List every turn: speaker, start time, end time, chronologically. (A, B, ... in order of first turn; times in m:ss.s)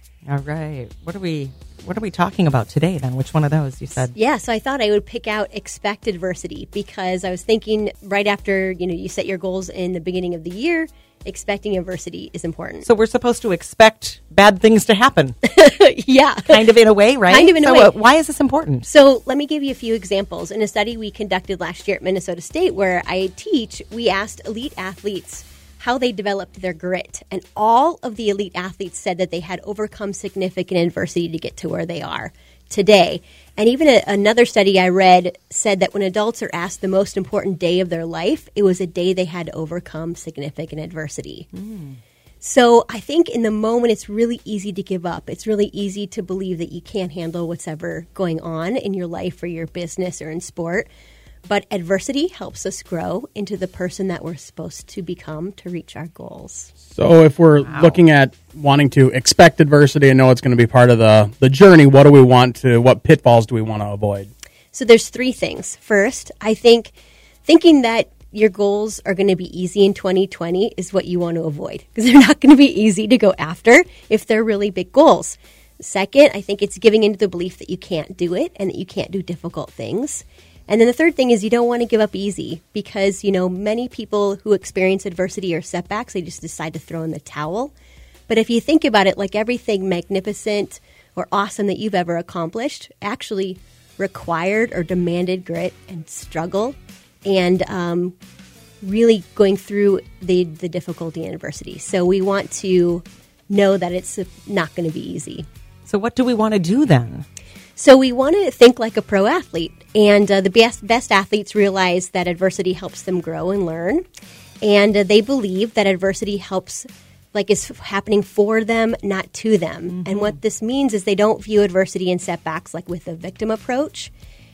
0:00.3-0:04.1 A
0:04.1-0:12.9 B
0:12.9-0:15.4 A
0:15.4-0:16.7 B
0:16.5-0:18.9 A
0:17.3-0:18.0 B
0:18.9-0:41.5 B
0:41.5-0:42.0 A
0:42.4-0:50.9 B
0:51.5-0:56.7 B
0:56.9-1:04.3 C
0:57.6-0:58.0 A
1:04.7-1:06.9 B
1:07.4-1:27.7 B
1:28.3-1:38.2 B
1:38.8-1:45.5 B
1:45.9-1:47.3 A
1:47.8-1:54.0 B
1:54.6-2:04.1 B